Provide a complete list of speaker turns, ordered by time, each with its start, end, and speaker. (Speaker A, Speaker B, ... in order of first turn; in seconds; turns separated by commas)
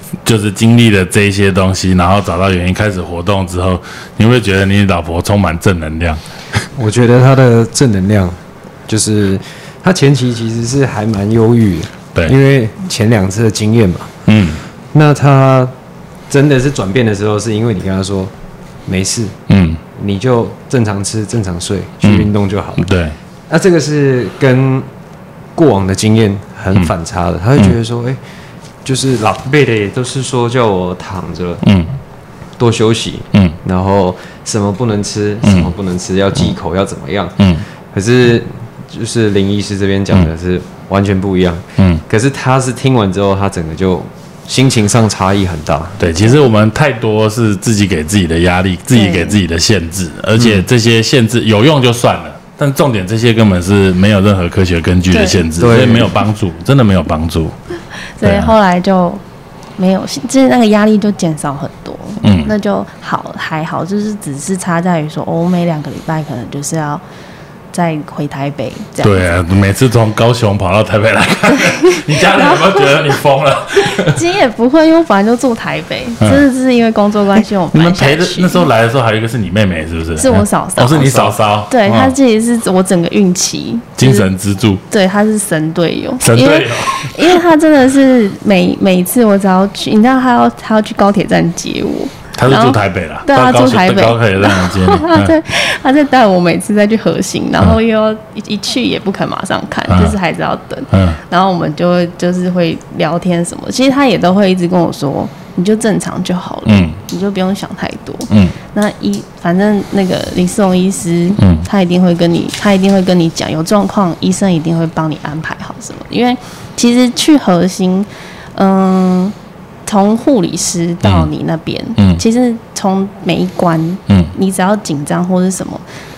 Speaker A: 0.2-6.6, Speaker B: 6.8-14.1, Speaker A: 14.3-14.6, Speaker B: 14.9-15.7, Speaker B: 16.3-18.3, Speaker B: 18.9-19.4, Speaker A: 19.5-19.8, Speaker B: 19.9-22.9, Speaker A: 22.0-23.2, Speaker B: 23.5-24.9, Speaker B: 25.6-28.2, Speaker B: 28.9-31.6, Speaker A: 31.6-31.9, Speaker B: 32.6-46.0, Speaker A: 33.3-33.6, Speaker A: 35.4-35.7, Speaker A: 37.4-37.6, Speaker A: 41.8-42.0, Speaker A: 46.0-57.5, Speaker C: 48.9-49.4, Speaker B: 50.4-50.6, Speaker C: 55.1-55.4, Speaker B: 55.6-56.1, Speaker C: 58.2-59.2, Speaker A: 58.2-58.5, Speaker C: 59.8-67.0, Speaker A: 62.2-62.5, Speaker C: 67.7-69.3, Speaker A: 69.0-74.2, Speaker C: 71.5-73.2, Speaker C: 73.7-78.7, Speaker A: 76.2-76.5, Speaker A: 77.7-82.1, Speaker C: 80.2-84.3, Speaker A: 84.0-84.8, Speaker C: 84.9-119.3, Speaker A: 86.2-87.4, Speaker A: 92.4-95.3, Speaker A: 99.9-100.2, Speaker A: 100.9-101.2, Speaker A: 106.7-107.0, Speaker A: 108.3-108.5, Speaker A: 111.4-111.7, Speaker C: 119.9-125.8, Speaker A: 121.0-121.3, Speaker A: 122.0-122.2